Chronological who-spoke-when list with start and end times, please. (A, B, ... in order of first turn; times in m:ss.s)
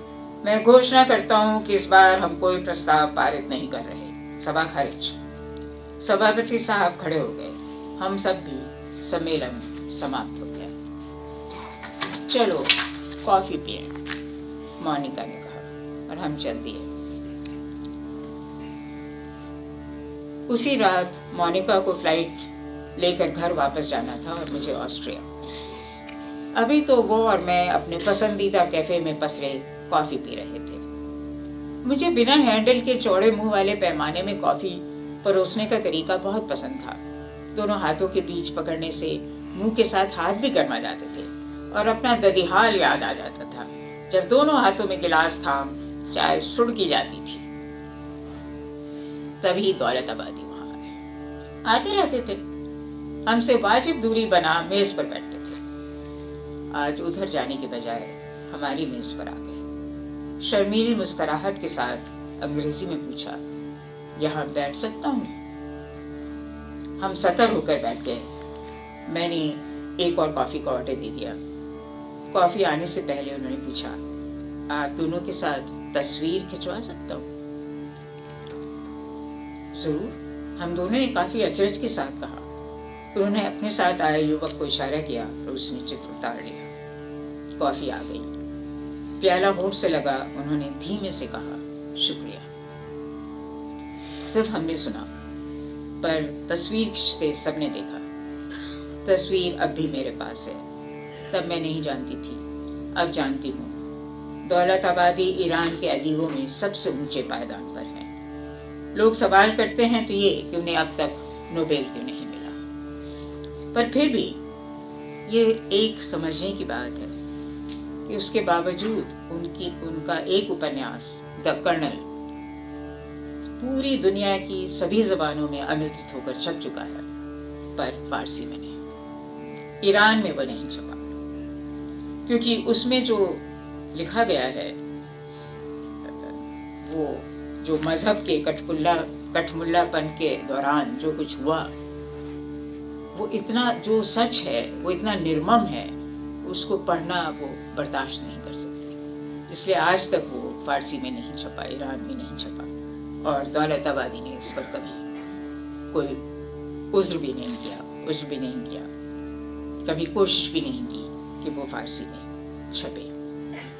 0:00.4-0:05.2 A
0:06.0-0:10.8 A
0:12.2-0:13.9 A
0:14.8-0:16.9 A
0:20.5-0:25.3 A
0:26.5-0:30.8 A
0:31.8-0:37.0 A
0:37.5-0:47.4 A
0:49.4-0:51.0 A
0:51.6-0:52.4 A
0:53.2-0:55.6 A
0:56.7-0:59.6 A
1:00.4-1:03.4 A
1:04.2-1:05.4 A
1:07.0-1:08.3 A
1:09.1-1:11.4 A
1:12.3-1:14.0 A
1:14.7-1:17.3 A
1:19.7-1:22.4 A
1:23.1-1:26.7 A
1:27.6-1:28.3 A
1:29.2-1:32.5 A
1:34.2-1:35.1 A
1:36.0-1:38.0 A
1:39.0-1:40.6 A
1:41.3-1:43.8 A
1:44.4-1:48.1 A
1:48.9-1:52.6 A
1:53.7-1:54.4 A
1:55.2-1:57.2 A
1:58.1-2:02.1 A
2:03.4-2:07.1 A
2:07.8-2:08.8 A
2:09.8-2:11.1 A
2:12.3-2:14.8 A
2:16.0-2:21.7 A
2:23.1-2:32.7 A
2:33.2-2:35.0 A
2:35.9-2:36.2 A
2:36.9-2:38.9 A
2:39.8-2:43.1 A